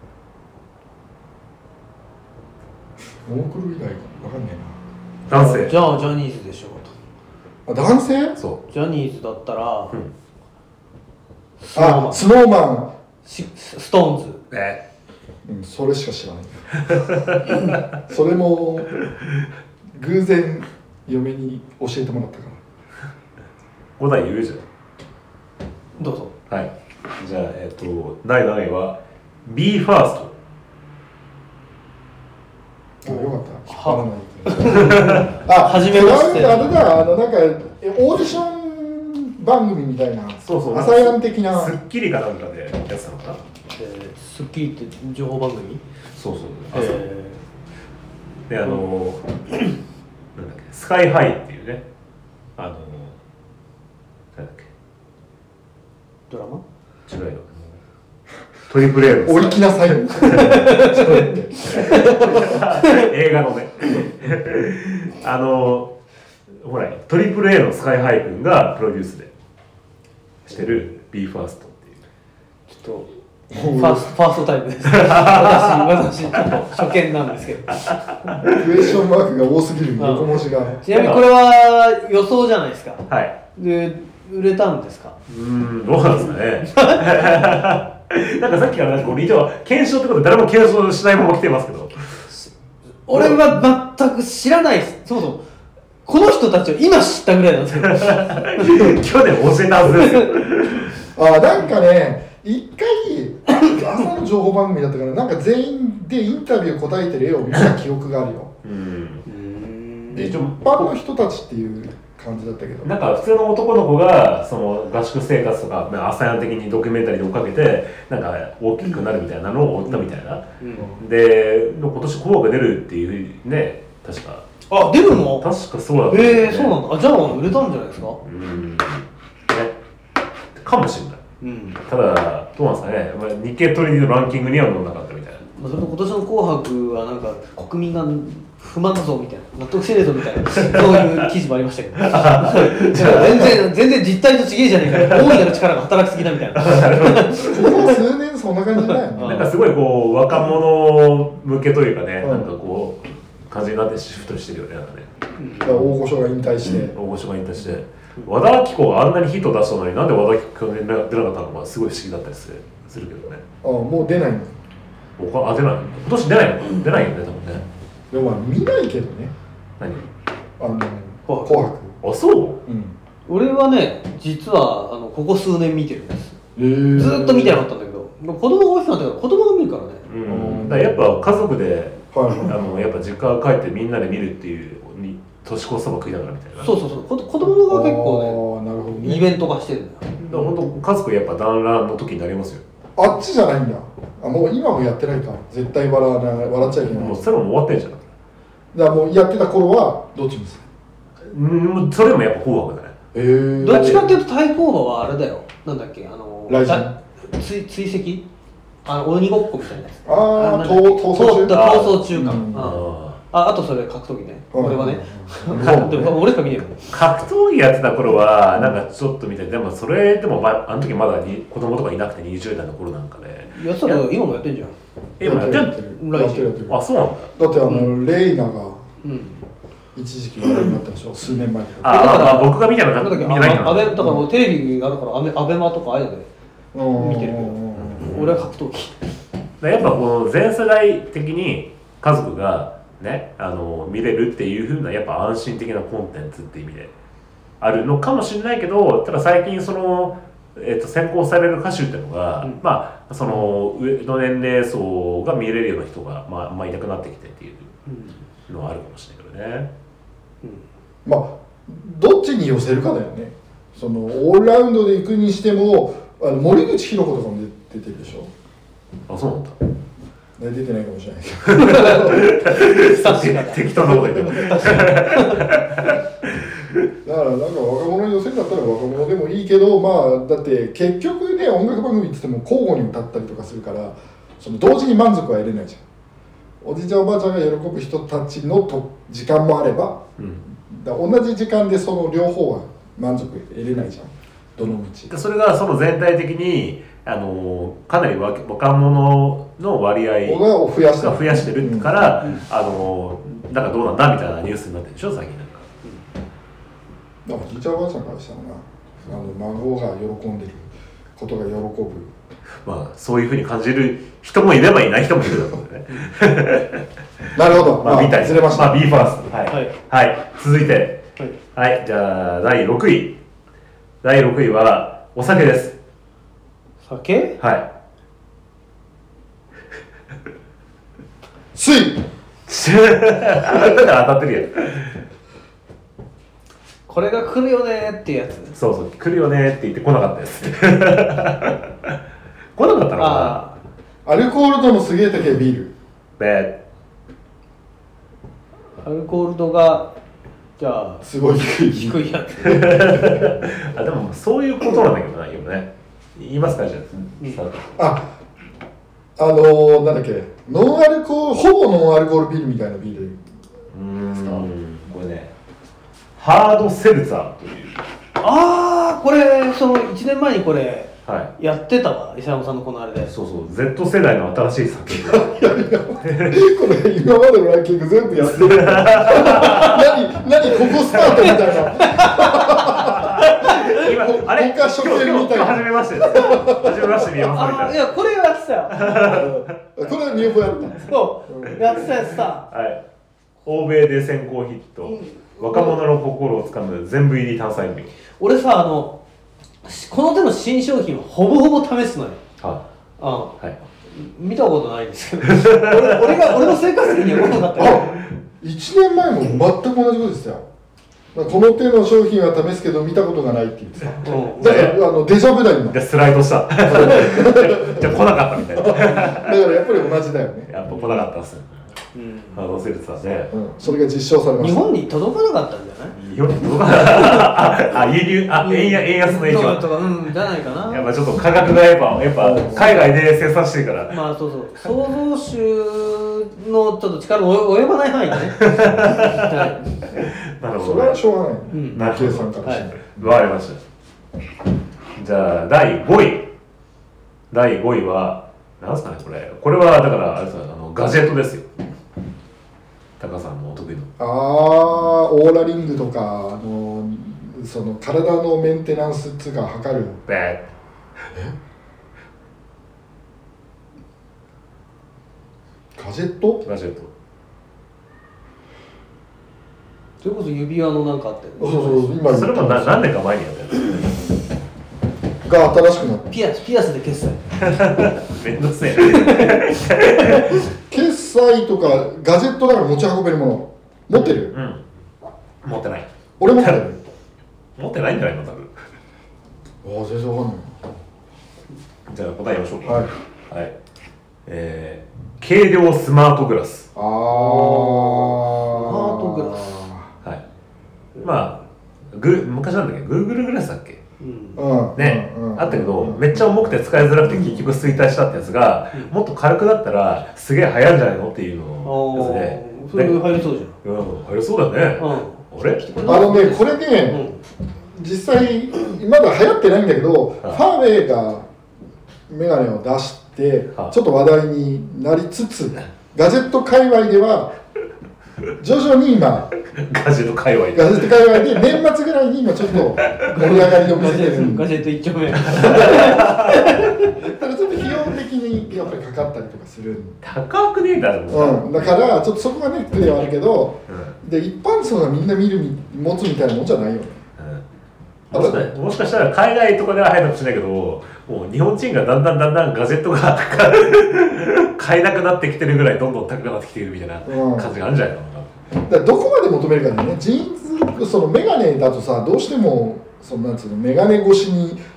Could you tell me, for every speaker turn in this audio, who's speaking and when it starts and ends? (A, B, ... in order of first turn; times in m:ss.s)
0:03.2-0:04.8 A
0:05.3-0:05.9 B
0:05.3-0:06.9 C
0:07.7-0:08.4 A
0:08.7-0:10.0 C
0:11.6-0:12.2 C
0:11.8-0:13.0 A
0:13.2-0:14.4 C
0:14.5-0:14.8 B
0:15.4-0:16.8 A
0:16.9-0:17.4 B
0:18.1-0:19.0 A
0:20.0-0:22.6 A
0:24.0-0:24.6 B
0:26.0-0:26.3 C
0:26.5-0:30.3 B
0:33.0-0:41.8 A
0:33.1-0:36.8 C
0:34.8-0:35.3 B
0:40.4-0:43.4 B
0:43.8-0:45.8 C
0:46.1-0:47.0 B
0:46.7-0:47.4 C
0:48.5-0:49.2 B
0:50.4-0:51.8 B
0:52.6-0:53.2 B
0:54.4-0:54.7 B
0:56.3-0:56.6 C
0:57.1-0:57.8 B
0:58.7-1:00.5 B
0:59.2-1:02.6 A
1:00.2-1:03.1 C
1:01.6-1:05.9 B
1:06.6-1:09.3 B
1:10.5-1:12.0 B
1:12.7-1:13.1 C
1:13.5-1:14.1 A
1:13.7-1:18.3 C
1:14.9-1:16.6 B
1:18.2-1:18.6 B
1:18.4-1:20.8 A
1:20.0-1:25.2 C
1:20.9-1:21.3 B
1:23.1-1:23.4 B
1:25.3-1:32.2 B
1:26.7-1:27.3 C
1:33.1-1:35.4 C
1:36.0-1:38.7 C
1:37.8-1:40.9 B
1:40.0-1:40.3 C
1:41.1-1:48.5 A
1:48.6-1:49.2 B
1:49.2-1:50.4 C
1:50.1-1:50.9 B
1:50.2-1:52.9 A
1:52.8-2:00.5 B
1:59.9-2:01.0 C
2:01.0-2:04.5 B
2:04.7-2:05.5 C
2:05.2-2:06.8 B
2:06.1-2:08.2 C
2:08.2-2:09.8 B
2:10.6-2:11.2 B
2:11.4-2:11.8 C
2:11.8-2:15.4 B
2:15.5-2:28.0 C
2:20.6-2:21.1 B
2:22.0-2:23.6 B
2:24.9-2:25.6 B
2:26.5-2:27.7 B
2:27.4-2:29.5 A
2:29.1-2:29.5 C
2:29.2-2:35.1 B
2:32.2-2:32.5 A
2:35.4-2:35.8 C
2:35.6-2:37.0 A
2:36.9-2:43.4 B
2:43.6-2:44.5 A
2:45.2-2:47.6 B
2:48.1-2:49.3 A
2:49.8-2:50.1 B
2:50.6-2:52.0 A
2:51.3-2:51.6 C
2:52.0-2:52.6 B
2:52.6-2:53.0 A
2:53.2-2:56.4 C
2:56.6-2:57.6 A
2:57.0-3:00.1 C
3:00.1-3:06.7 B
3:00.2-3:01.1 A
3:02.1-3:02.9 A
3:06.6-3:08.4 C
3:07.4-3:09.2 A
3:09.0-3:10.5 C
3:10.2-3:12.6 B
3:13.0-3:17.3 A
3:16.8-3:18.1 B
3:18.7-3:20.6 A
3:21.2-3:23.0 B
3:23.1-3:24.2 A
3:23.6-3:28.2 C
3:23.7-3:24.0 B
3:26.5-3:27.0 A
3:28.8-3:37.0 C
3:30.1-3:32.8 A
3:31.5-3:33.2 B
3:34.5-3:36.2 A
3:35.5-3:36.1 B
3:36.9-3:44.2 B
3:43.5-3:44.8 C
3:45.2-3:45.8 B
3:45.2-3:46.8 A
3:46.0-3:46.5 C
3:46.7-3:47.3 B
3:47.4-3:48.8 A
3:47.6-3:47.9 C
3:49.0-3:49.4 C
3:50.0-3:52.2 A
3:51.8-3:54.1 B
3:51.8-3:56.3 C
3:56.7-3:58.2 A
3:57.0-3:59.0 C
3:57.8-3:58.4 B
3:59.6-4:06.9 B
4:07.6-4:17.7 B
4:13.3-4:13.5 A
4:17.9-4:18.2 C
4:18.5-4:19.7 B
4:21.0-4:28.3 A
4:29.1-4:29.6 B
4:30.4-4:32.3 A
4:31.5-4:36.0 B
4:31.6-4:35.6 C
4:33.7-4:34.9 A
4:37.0-4:45.8 A
4:46.6-4:50.0 A
4:50.2-4:50.4 B
4:50.6-4:55.1 A
4:55.1-5:05.7 B
5:00.2-5:02.0 A
5:07.2-5:12.1 A
5:12.6-5:23.2 B
5:17.3-5:19.1 A
5:24.0-5:25.8 B
5:26.8-5:27.4 C
5:27.4-5:27.7 B
5:31.5-5:32.1 A
5:32.5-5:35.0 B
5:36.9-5:38.6 C
5:38.5-5:42.0 B
5:42.6-5:43.4 B
5:43.0-5:43.6 C
5:44.0-5:45.7 A
5:46.2-5:46.6 B
5:48.8-5:49.9 C
5:50.6-5:51.0 C
5:51.0-5:53.4 A
5:51.7-5:53.1 C
5:52.4-5:57.8 B
5:57.8-5:58.1 A
5:59.2-6:03.2 A
6:03.7-6:05.3 B
6:04.1-6:04.5 A
6:06.2-6:07.8 B
6:08.2-6:13.1 C
6:11.0-6:11.3 B
6:13.1-6:15.5 B
6:15.0-6:27.2 A
6:16.0-6:16.5 B
6:18.2-6:20.0 B
6:20.6-6:21.9 B
6:21.7-6:23.8 C
6:22.6-6:27.9 B
6:27.2-6:29.3 C
6:28.7-6:29.5 B
6:29.0-6:31.6 A
6:30.8-6:32.5 C
6:31.8-6:32.8 B
6:33.4-6:37.9 B
6:34.8-6:35.8 C
6:38.2-6:39.0 C
6:39.6-6:42.2 C
6:43.0-6:43.4 C
6:43.9-6:48.0 C
6:45.3-6:46.5 B
6:47.6-6:50.5 A
6:51.1-6:55.8 A
6:54.0-6:54.8 C
6:54.4-6:54.8 B
6:55.7-6:59.4 B
6:56.6-7:00.5 A
7:00.5-7:01.6 B
7:02.0-7:02.4 C
7:02.3-7:03.3 B
7:03.3-7:04.7 A
7:04.4-7:06.0 C
7:06.0-7:09.8 B
7:08.4-7:10.9 C
7:10.7-7:14.0 B
7:12.2-7:12.8 A
7:12.5-7:12.9 C
7:13.9-7:19.6 C
7:18.3-7:21.0 B
7:20.6-7:23.1 A
7:21.5-7:21.8 C
7:21.7-7:23.6 B
7:22.4-7:22.7 C
7:25.0-7:26.3 B
7:27.3-7:31.5 B
7:33.0-7:33.9 B
7:34.0-7:40.0 A
7:40.1-7:40.5 B
7:45.8-7:46.4 A
7:46.4-7:46.9 B
7:50.0-7:52.0 C
7:51.4-7:52.9 A
7:52.0-7:54.0 B
7:55.2-7:56.1 A
7:56.1-7:57.2 C
7:57.4-8:00.4 B
7:58.8-8:00.2 C
8:00.4-8:04.3 A
8:03.9-8:04.6 B
8:05.4-8:06.6 B
8:06.2-8:06.8 A
8:07.6-8:08.5 B
8:09.6-8:10.6 A
8:11.9-8:13.5 B
8:12.6-8:12.9 A
8:14.2-8:16.7 B
8:16.8-8:19.9 A
8:17.1-8:19.7 C
8:21.0-8:21.4 C
8:21.0-8:21.4 B
8:21.9-8:23.8 B
8:24.0-8:24.4 C
8:24.4-8:26.5 A
8:24.8-8:33.0 B
8:31.6-8:33.5 C
8:33.6-8:35.6 B
8:34.8-8:37.2 C
8:35.8-8:37.0 A
8:37.7-8:41.3 A
8:42.1-8:47.3 A
8:48.4-8:49.3 A
8:49.5-8:51.5 B
8:50.5-8:54.5 A
8:52.5-8:53.0 B
8:53.1-8:57.1 C
8:55.2-8:56.6 B
8:55.4-8:56.1 A
8:56.8-9:00.0 A
9:00.0-9:01.8 B
9:01.1-9:07.0 A
9:03.7-9:04.0 B
9:07.2-9:07.4 B
9:08.1-9:18.4 B
9:08.1-9:08.5 A
9:17.1-9:17.5 A
9:18.6-9:24.6 A